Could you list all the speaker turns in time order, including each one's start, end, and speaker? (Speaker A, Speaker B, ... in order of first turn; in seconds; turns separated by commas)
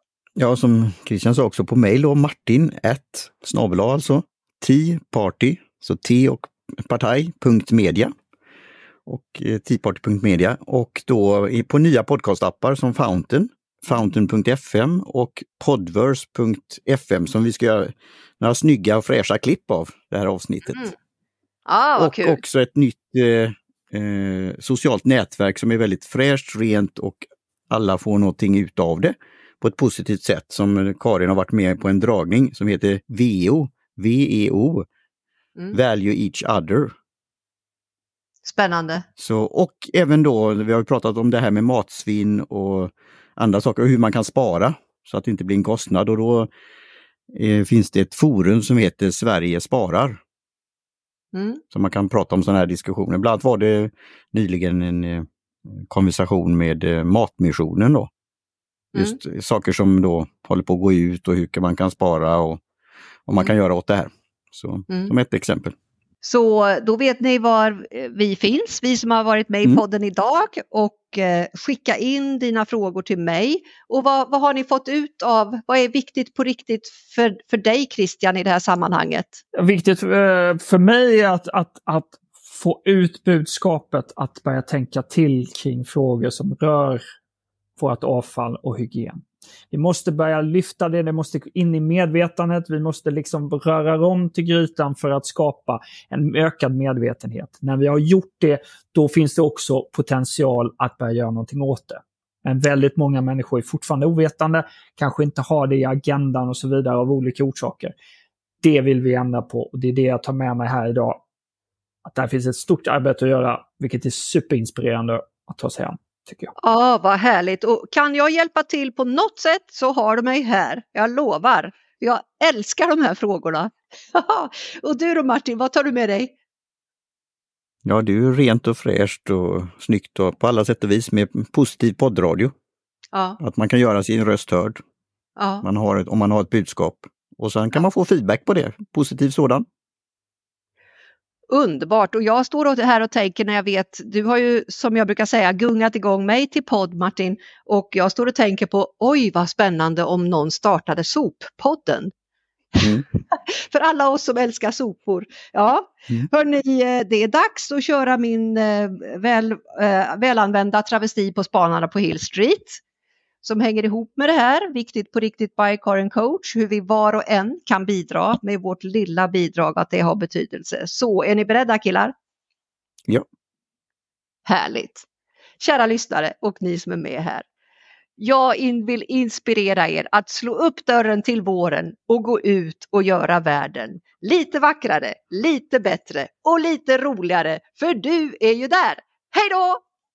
Speaker A: 0.4-8.1, Speaker A: 9.1-20.9, Speaker B: 21.7-22.4, Speaker A: 22.0-34.9, Speaker A: 35.7-36.9, Speaker B: 38.5-39.0, Speaker A: 39.2-46.5, Speaker A: 47.3-50.2, Speaker B: 51.3-51.6, Speaker A: 51.7-55.3, Speaker A: 55.8-58.1, Speaker B: 58.9-59.2, Speaker A: 59.0-62.6, Speaker A: 63.3-65.7, Speaker B: 66.2-79.4, Speaker C: 79.5-87.0, Speaker C: 87.8-108.0, Speaker C: 108.6-111.2, Speaker C: 112.1-116.5, Speaker B: 116.6-126.3, Speaker A: 127.8-132.5, Speaker B: 133.1-133.4, Speaker A: 133.4-134.8, Speaker B: 135.4-135.7, Speaker A: 135.6-139.7, Speaker B: 141.5-152.1, Speaker B: 152.8-162.8, Speaker B: 163.4-172.1, Speaker B: 174.5-175.1, Speaker B: 175.6-177.5, Speaker B: 178.2-189.8